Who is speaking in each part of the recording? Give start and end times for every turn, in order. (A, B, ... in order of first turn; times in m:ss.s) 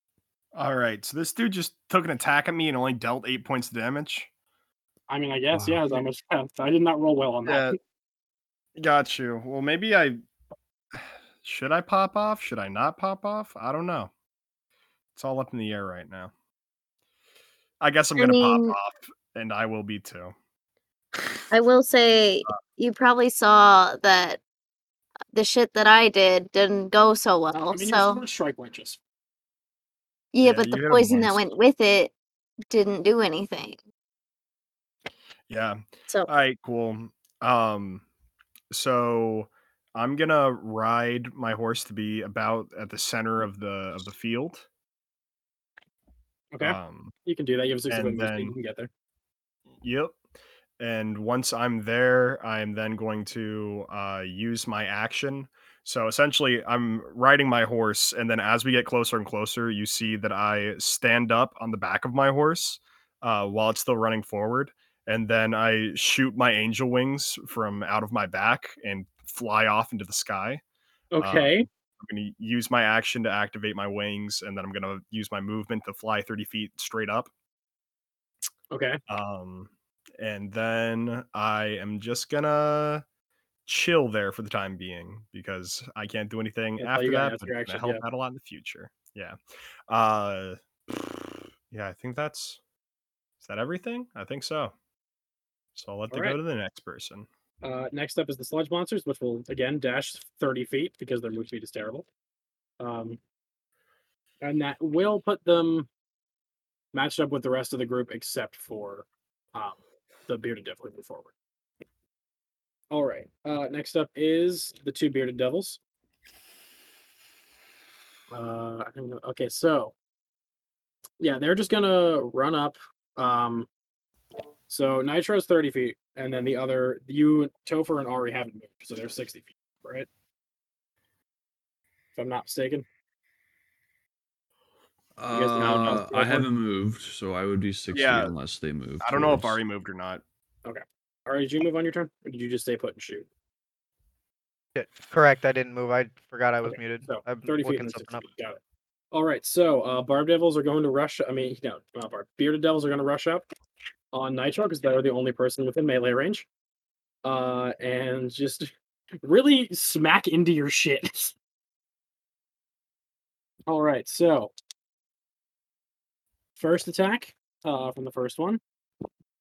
0:00.5-0:04.3 A
0:05.1-0:07.8 B
0:05.5-0:06.0 C
0:07.4-0:07.8 A
0:08.8-0:10.2 A
0:10.9-0:14.1 A
0:15.1-0:16.3 A
0:17.8-0:20.3 A
0:18.2-0:18.8 D
0:21.5-0:24.4 D
0:25.3-0:28.2 D
0:27.5-0:29.0 B
0:30.3-0:32.1 D
0:30.4-0:31.4 A
0:32.7-0:33.8 D
0:35.5-0:38.0 A
0:38.7-0:44.6 A
0:46.5-0:48.9 B
0:46.6-0:47.1 A
0:47.9-0:48.5 A
0:49.8-0:50.2 A
0:50.8-1:10.6 A
1:11.1-1:11.7 B
1:11.2-1:17.3 A
1:18.7-1:19.0 B
1:19.1-1:23.0 A
1:23.7-1:29.4 A
1:26.8-1:28.0 B
1:29.9-1:32.6 A
1:33.4-1:34.7 A
1:35.7-1:37.3 A
1:36.1-1:36.4 B
1:37.6-1:42.0 B
1:42.8-1:43.2 B
1:44.4-1:45.9 B
1:46.9-1:51.3 B
1:52.9-1:55.8 B
1:58.3-1:59.9 B
2:01.2-2:03.7 B
2:04.7-2:10.1 B
2:12.1-2:12.8 B
2:15.2-2:19.6 C
2:15.3-2:16.5 B
2:15.6-2:16.0 A
2:17.9-2:18.3 A
2:19.0-2:20.2 A
2:20.6-2:23.2 B
2:24.7-2:28.3 E
2:26.6-2:28.6 B
2:29.1-2:33.4 B
2:34.1-2:36.5 B
2:37.2-2:38.7 B
2:39.2-2:41.3 B
2:43.7-2:44.5 B
2:46.6-2:48.6 B